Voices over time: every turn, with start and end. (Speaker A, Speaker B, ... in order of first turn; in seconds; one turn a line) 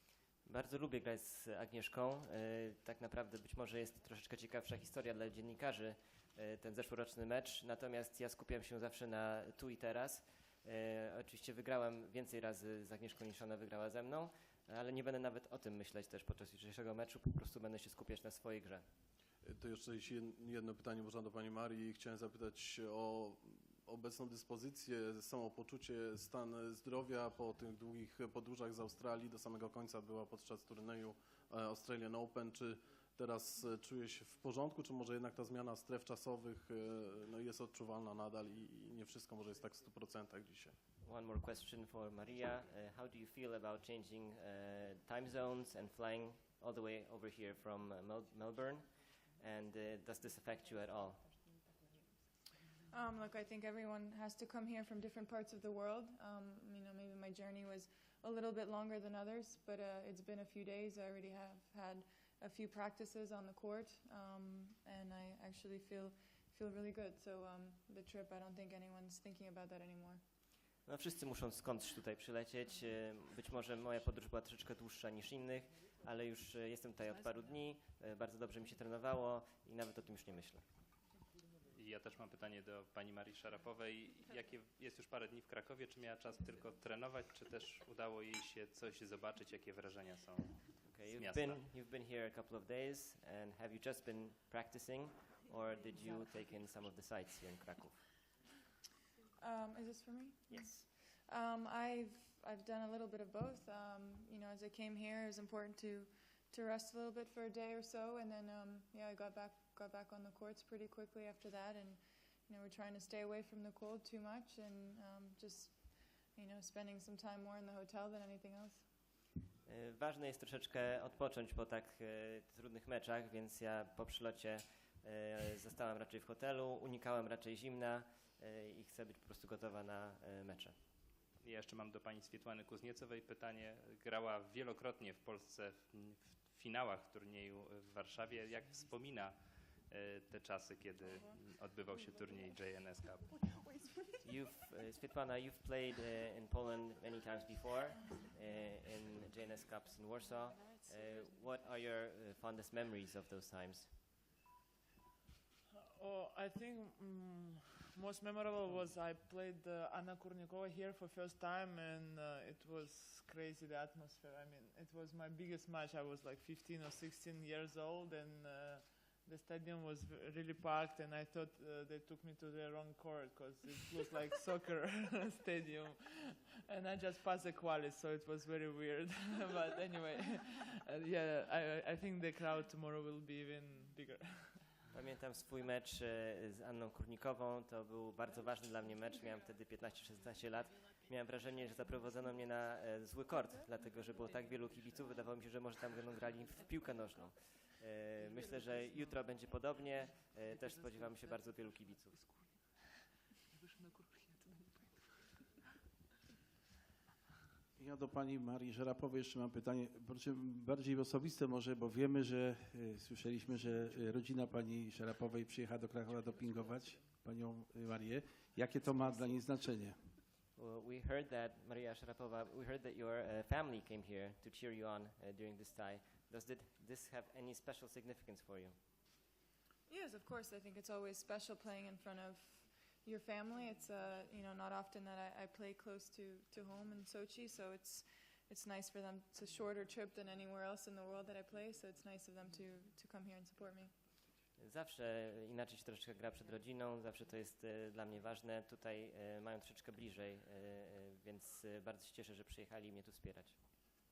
Speaker A: 0.5-18.9
Speaker B: 19.4-40.8
Speaker A: 41.0-51.3
Speaker C: 52.9-70.2
Speaker A: 70.8-80.6
Speaker D: 81.7-91.7
Speaker A: 90.8-98.2
Speaker C: 99.4-118.9
Speaker A: 100.5-100.9
Speaker A: 119.7-130.8
Speaker D: 131.4-143.3
Speaker A: 144.2-153.9
Speaker E: 155.9-184.7
Speaker A: 184.9-202.2
Speaker F: 207.8-220.0
Speaker A: 220.6-228.8
Speaker C: 229.9-244.0
Speaker A: 244.6-253.6